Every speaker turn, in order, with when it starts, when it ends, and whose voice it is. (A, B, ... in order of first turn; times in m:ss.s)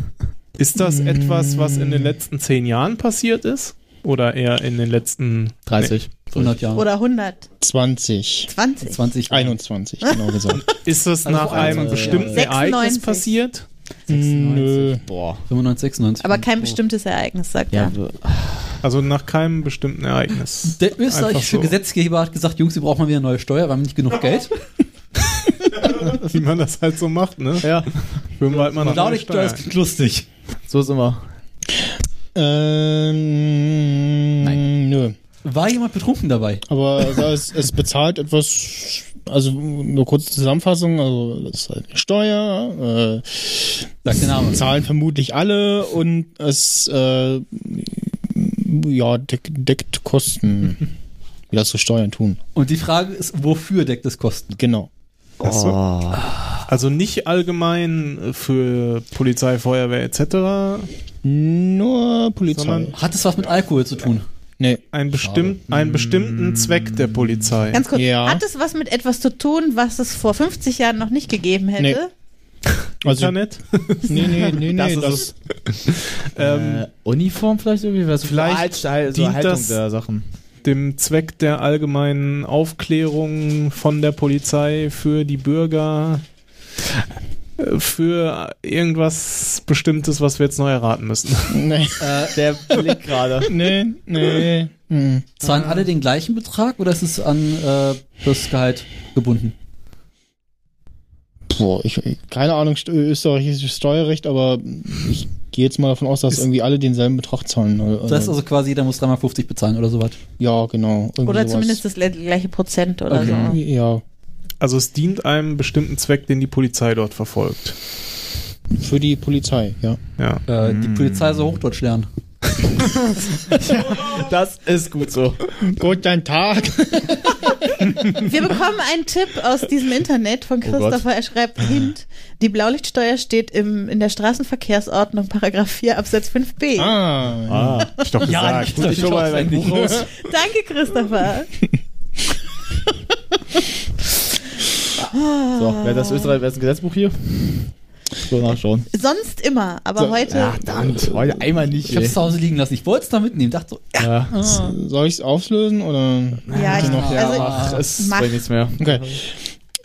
0:00.6-0:05.9 A
0:00.8-0:02.2 B
0:05.6-0:06.5 C
0:06.3-0:06.8 D
0:06.7-0:07.5 E
0:07.6-0:08.5 B
0:08.5-0:09.0 E
0:08.8-0:09.6 D
0:09.3-0:10.6 B
0:10.6-0:13.6 A
0:11.2-0:12.5 D
0:11.3-0:12.4 C
0:12.3-0:13.3 E
0:14.1-0:15.0 B
0:14.1-0:14.8 D
0:14.6-0:15.4 C
0:15.5-0:16.8 D
0:16.2-0:17.9 E
0:17.7-0:18.8 C
0:18.8-0:21.8 A
0:20.6-0:24.5 D
0:25.7-0:29.7 A
0:27.6-0:29.1 C
0:28.8-0:30.3 D
0:30.7-0:31.2 C
0:32.3-0:35.1 B
0:35.4-0:36.6 D
0:36.7-0:50.8 B
0:44.0-0:44.6 D
0:51.5-0:52.4 B
0:52.5-0:54.6 D
0:54.6-0:54.9 B
0:55.4-0:55.8 A
0:55.4-0:56.3 C
0:56.7-1:00.9 A
1:01.2-1:02.9 B
1:02.5-1:02.9 A
1:02.9-1:04.2 D
1:04.9-1:07.8 A
1:05.3-1:07.3 C
1:07.7-1:12.1 E
1:07.9-1:08.4 B
1:13.0-1:14.5 A
1:13.0-1:13.4 B
1:14.0-1:15.3 B
1:14.6-1:15.3 C
1:16.4-1:16.8 A
1:16.4-1:20.2 C
1:18.2-1:19.8 A
1:20.6-1:26.2 A
1:27.6-1:31.6 A
1:31.5-1:32.2 B
1:32.0-1:32.4 D
1:32.3-1:33.6 C
1:33.4-1:35.4 B
1:35.4-1:39.5 D
1:41.5-1:48.4 B
1:48.1-1:50.2 D
1:50.4-1:51.8 B
1:51.2-1:53.6 E
1:53.1-1:53.5 D
1:53.2-1:54.0 B
1:54.6-1:57.8 A
1:58.8-2:00.0 B
2:00.2-2:00.4 A
2:00.5-2:02.1 D
2:00.7-2:01.2 C
2:02.8-2:05.5 C
2:05.6-2:08.3 B
2:08.1-2:17.0 E
2:10.6-2:11.0 C
2:16.8-2:17.9 B
2:17.5-2:18.0 C
2:18.0-2:19.0 A
2:18.2-2:20.1 D
2:18.6-2:20.1 C
2:20.1-2:21.5 E
2:25.1-2:26.4 E
2:25.6-2:27.7 C
2:28.2-2:28.9 C
2:28.9-2:30.6 E
2:30.3-2:32.2 C
2:31.9-2:34.5 D
2:34.0-2:34.3 C
2:34.4-2:34.7 E
2:34.4-2:37.4 B
2:36.5-2:39.2 C
2:36.5-2:38.4 E
2:36.8-2:37.9 D
2:38.8-2:39.3 B